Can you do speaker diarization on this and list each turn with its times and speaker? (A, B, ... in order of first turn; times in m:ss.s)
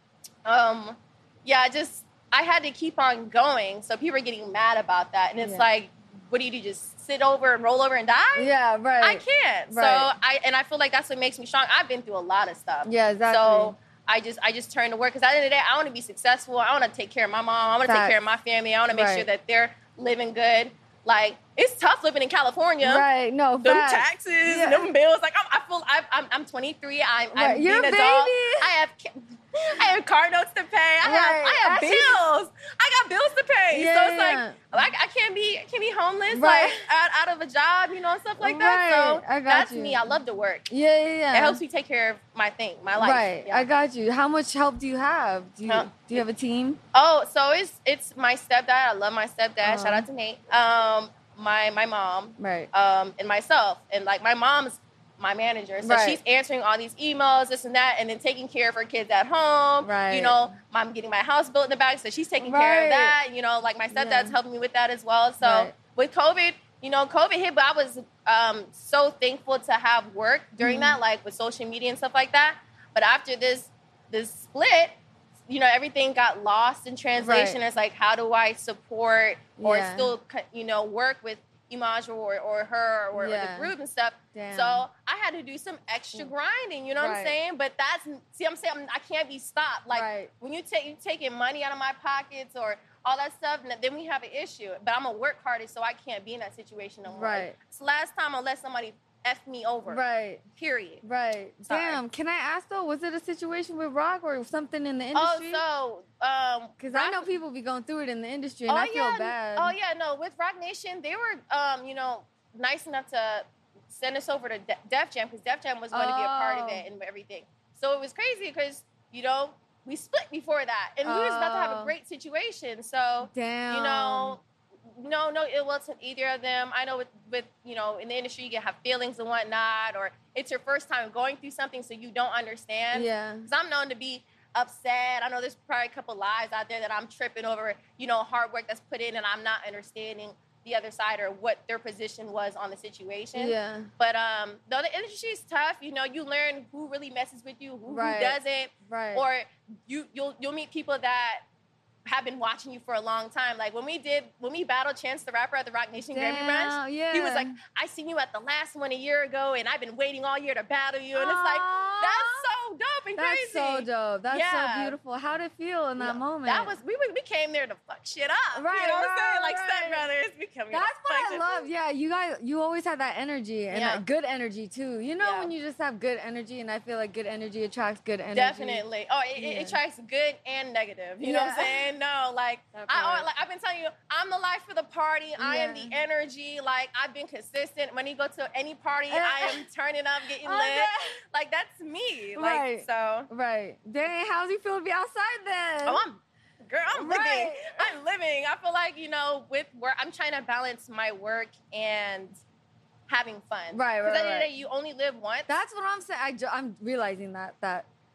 0:00.4-0:23.0 A
0:08.3-0:10.1 B
0:12.8-0:13.7 B
0:17.8-0:18.2 B
0:18.9-0:19.2 B
0:22.8-0:24.9 B
0:23.6-0:40.7 A
0:27.4-0:28.7 B
0:31.0-0:32.2 B
0:33.7-0:34.6 B
0:36.3-0:36.8 B
0:38.4-0:40.0 B
0:40.7-0:41.6 B
0:41.3-0:43.7 A
0:43.0-0:46.8 B
0:45.7-0:45.9 A
0:46.9-1:15.0 A
0:49.6-0:50.1 B
0:52.4-0:52.7 B
0:55.8-0:56.2 B
0:59.8-1:00.4 B
1:02.4-1:03.2 B
1:03.9-1:04.4 B
1:05.4-1:05.7 B
1:10.6-1:11.0 B
1:15.5-1:40.0 A
1:17.2-1:17.6 B
1:19.6-1:20.1 B
1:23.1-1:23.7 B
1:24.3-1:24.8 B
1:27.0-1:27.3 B
1:29.9-1:30.3 B
1:37.1-1:37.6 B
1:39.9-1:40.4 B
1:40.6-1:41.0 A
1:41.0-1:45.6 B
1:41.6-1:42.0 A
1:45.1-1:47.3 A
1:46.8-1:49.7 B
1:48.7-2:31.4 A
1:55.9-1:56.8 B
2:01.0-2:01.9 B
2:03.2-2:04.4 B
2:12.9-2:13.5 B
2:23.3-2:23.9 B
2:27.9-2:29.2 B
2:32.0-2:45.0 A
2:36.1-2:37.6 B
2:41.1-2:42.5 B
2:43.2-2:46.7 B
2:46.0-2:51.6 A
2:48.5-2:50.0 B
2:50.7-2:58.8 B
2:53.7-2:54.0 A
2:55.2-2:55.5 A
2:58.3-3:13.3 A
2:59.4-2:59.8 B
3:01.2-3:01.9 B
3:02.7-3:03.3 B
3:05.4-3:06.0 B
3:09.1-3:09.6 B
3:10.4-3:11.2 B
3:12.4-3:16.0 B
3:15.8-3:22.4 A
3:16.9-3:17.9 B
3:23.1-3:25.5 A
3:23.7-3:24.5 B
3:25.5-3:27.8 B